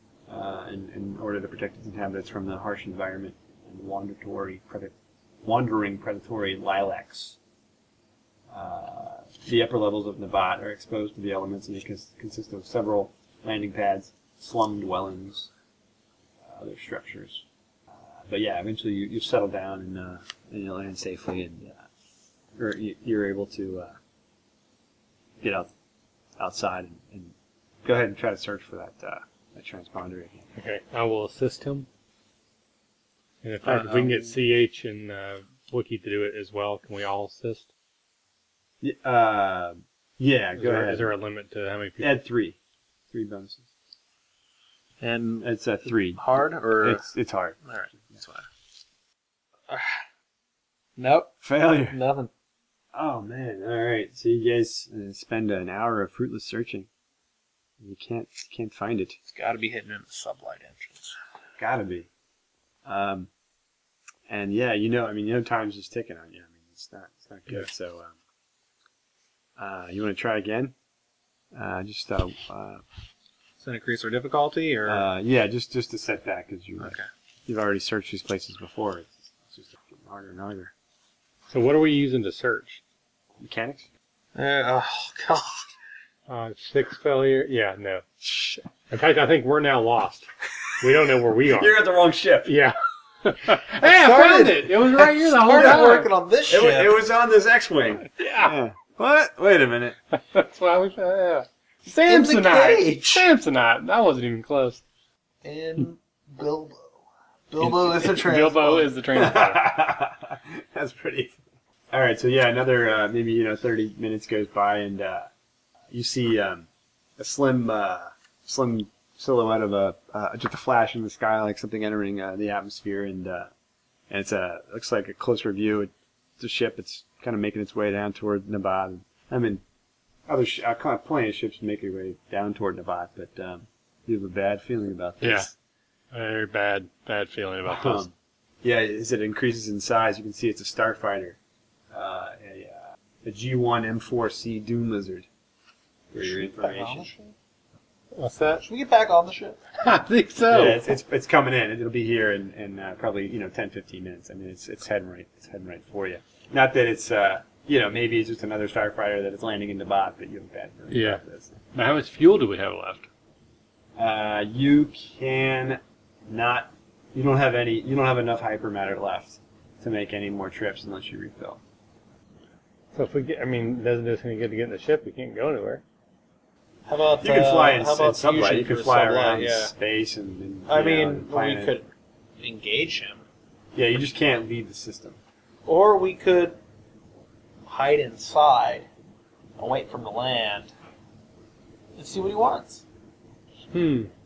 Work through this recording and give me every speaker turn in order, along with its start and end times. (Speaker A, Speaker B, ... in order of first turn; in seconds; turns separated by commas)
Speaker A: 0.3-7.4, Speaker A: 8.5-15.5, Speaker A: 16.4-21.9, Speaker A: 22.6-23.9, Speaker A: 25.4-25.7, Speaker A: 26.4-30.5, Speaker B: 30.6-31.9, Speaker B: 33.4-37.7, Speaker C: 33.7-34.1, Speaker A: 38.8-41.1, Speaker B: 40.6-42.2, Speaker A: 42.0-42.6, Speaker A: 43.1-43.7, Speaker C: 45.0-47.1, Speaker A: 45.4-46.2, Speaker A: 46.8-47.6, Speaker C: 47.7-48.5, Speaker C: 49.7-50.0, Speaker C: 51.0-51.3, Speaker A: 51.4-52.0, Speaker C: 51.9-52.3, Speaker A: 53.0-56.9, Speaker A: 57.8-59.2, Speaker C: 59.3-61.2, Speaker A: 61.6-62.1, Speaker A: 62.9-63.3, Speaker A: 64.3-68.2, Speaker A: 69.6-70.8, Speaker A: 71.5-72.8, Speaker C: 73.6-75.1, Speaker A: 74.9-80.7, Speaker C: 76.8-77.1, Speaker B: 81.5-82.8, Speaker A: 83.4-83.9, Speaker C: 84.3-85.7, Speaker B: 86.3-90.3, Speaker B: 90.8-91.8, Speaker A: 91.5-92.5, Speaker B: 92.5-96.1, Speaker C: 93.8-97.0, Speaker A: 96.5-100.0, Speaker B: 98.2-98.5, Speaker B: 100.1-104.8, Speaker C: 102.1-103.3, Speaker C: 105.4-107.0, Speaker C: 107.5-108.9, Speaker B: 107.6-109.6, Speaker A: 109.1-111.4, Speaker A: 111.9-115.3, Speaker A: 115.9-123.5, Speaker A: 124.1-129.6, Speaker A: 130.3-135.5, Speaker B: 135.2-135.5, Speaker B: 136.1-138.1, Speaker A: 137.7-141.4, Speaker A: 141.9-145.3, Speaker A: 146.1-147.1, Speaker C: 146.2-147.3, Speaker B: 148.2-148.6, Speaker C: 148.6-149.6, Speaker B: 149.8-150.8, Speaker A: 150.5-161.6, Speaker B: 160.9-161.2, Speaker B: 161.7-163.1, Speaker A: 164.0-171.6, Speaker B: 172.9-175.8, Speaker C: 176.9-179.7, Speaker A: 177.2-181.8, Speaker C: 180.7-181.9, Speaker C: 182.4-183.2, Speaker A: 183.8-185.2, Speaker C: 185.7-186.6, Speaker C: 187.7-188.9, Speaker C: 189.6-190.7, Speaker C: 192.0-192.8, Speaker B: 193.7-194.1